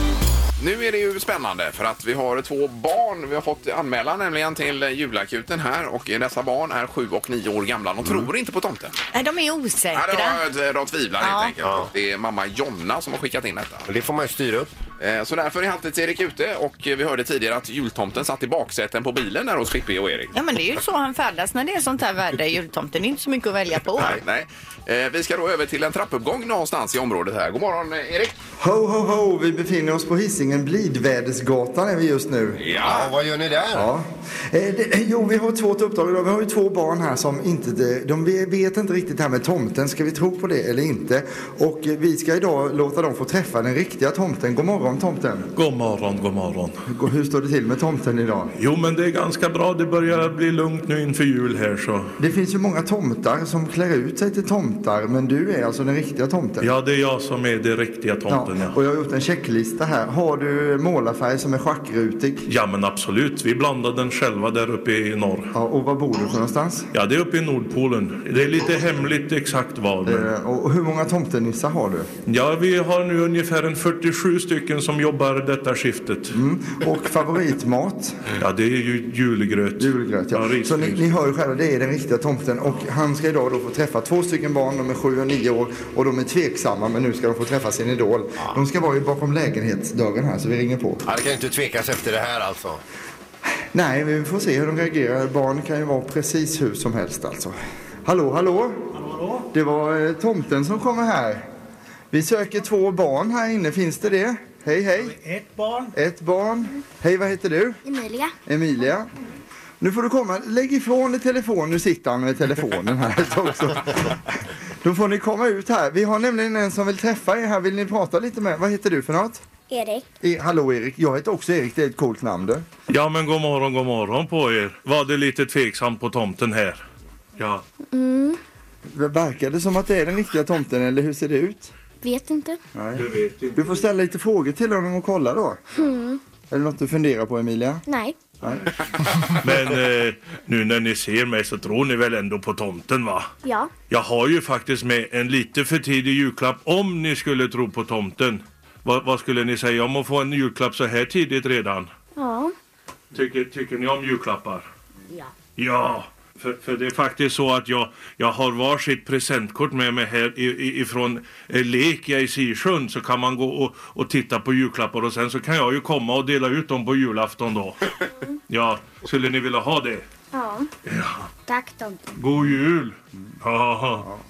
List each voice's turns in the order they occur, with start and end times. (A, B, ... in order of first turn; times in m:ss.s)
0:00.6-0:09.0 A
0:08.0-0:08.3 B
0:09.1-0:10.4 C
0:09.9-0:13.9 A
0:11.2-0:11.5 C
0:11.6-0:11.9 B
0:13.9-0:14.7 B
0:15.0-0:20.3 A
0:20.3-0:24.1 C
0:24.0-0:28.4 A
0:28.6-0:32.6 D
0:32.6-0:33.1 A
0:32.8-0:33.9 B
0:33.7-0:45.5 D
0:45.6-0:46.8 E
0:46.9-0:48.5 D
0:48.6-0:52.1 E
0:52.2-0:56.7 D
0:56.6-0:58.8 E
0:58.3-1:02.5 D
1:02.5-1:05.5 E
1:05.5-1:06.9 D
1:06.9-1:10.3 E
1:10.0-1:12.1 D
1:12.3-1:16.4 E
1:16.3-1:18.3 D
1:18.4-1:21.2 E
1:19.8-1:31.0 D
1:31.0-1:32.8 B
1:33.7-1:41.4 D
1:42.1-1:45.2 D
1:45.9-1:47.8 D
1:47.8-1:48.4 F
1:48.5-1:49.1 D
1:49.8-1:54.3 D
1:54.8-1:59.4 D
1:59.7-2:00.1 F
2:00.2-2:02.7 D
2:02.9-2:06.8 E
2:07.4-2:07.6 E
2:07.9-2:08.4 F
2:08.9-2:11.7 D
2:12.0-2:12.6 F
2:12.8-2:15.6 D
2:13.0-2:13.8 E
2:15.7-2:16.2 F
2:16.5-2:17.8 D
2:17.9-2:18.3 F
2:18.4-2:19.3 D
2:19.4-2:23.3 E
2:23.4-2:23.7 F
2:23.9-2:31.9 E
2:32.2-2:32.5 F
2:33.1-2:34.7 E
2:35.6-2:47.9 E
2:48.5-2:50.0 E
2:50.3-2:50.7 F
2:50.9-2:51.3 E
2:51.5-2:52.1 F
2:52.2-2:54.1 E